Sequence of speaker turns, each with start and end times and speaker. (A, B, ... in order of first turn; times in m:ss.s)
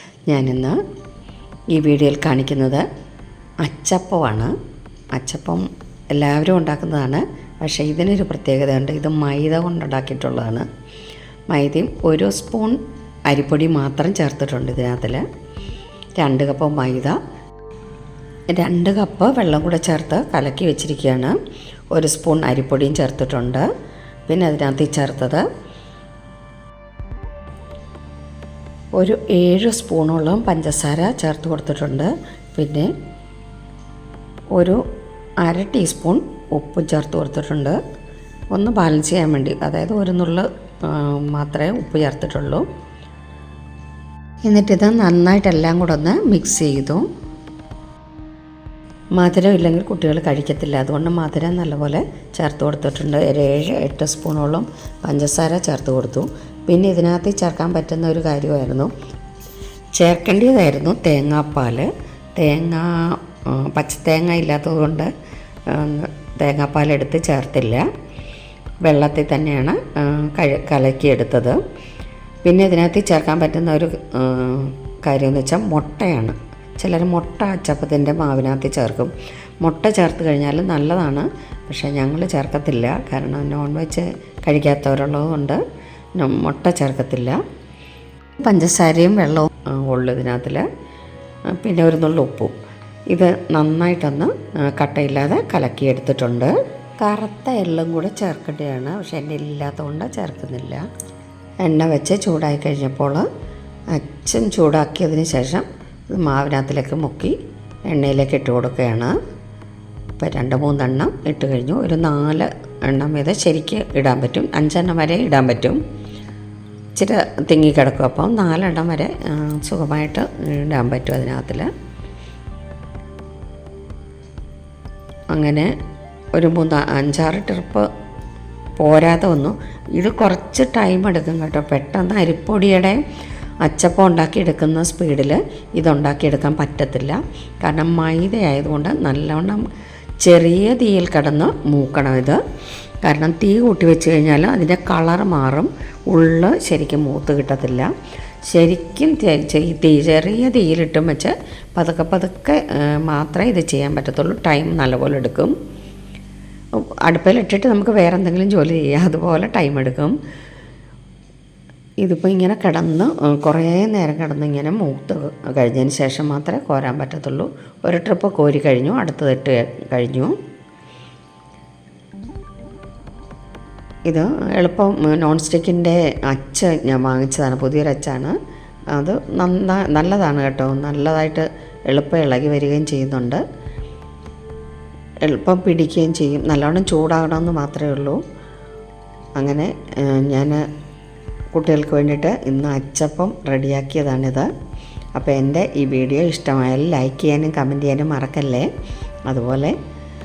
0:00.3-0:00.8 A
0:01.7-0:02.8 A
0:03.6-0:04.5 A
0:05.1-0:10.6 A
0:11.5-0:15.2 A
0:16.2-0:17.2 A
0:18.5-0:21.4 A
0:21.9-0:23.6 A
0:24.3-0:25.4 A
0:29.0-0:32.9 A
0:35.4-0:37.8 A
0:38.5-0:42.6 A
0:44.4-0:47.1 A
0:49.2-0:58.9 A
0:59.9-1:05.1 A
1:05.7-1:07.9 A
1:08.8-1:11.6 A
1:12.4-1:25.6 A
1:26.2-1:27.4 A
1:28.4-1:30.6 A
1:31.5-1:32.5 A
1:33.1-1:40.8 A
1:41.6-1:43.2 A
1:43.9-1:47.4 A
1:47.9-1:49.2 A
1:50.2-1:55.8 A
1:57.0-2:01.7 A
2:05.3-2:05.7 A
2:06.3-2:07.9 A
2:08.8-2:13.0 A
2:13.6-2:19.6 A
2:20.2-2:22.4 A
2:23.0-2:27.9 A
2:28.4-2:35.5 A
2:36.8-2:40.2 A
2:42.0-2:50.4 A
2:54.0-2:58.4 A
2:58.9-3:03.4 A
3:05.2-3:08.2 A
3:09.4-3:10.6 A
3:11.5-3:14.5 A
3:15.1-3:18.7 A
3:19.3-3:19.7 A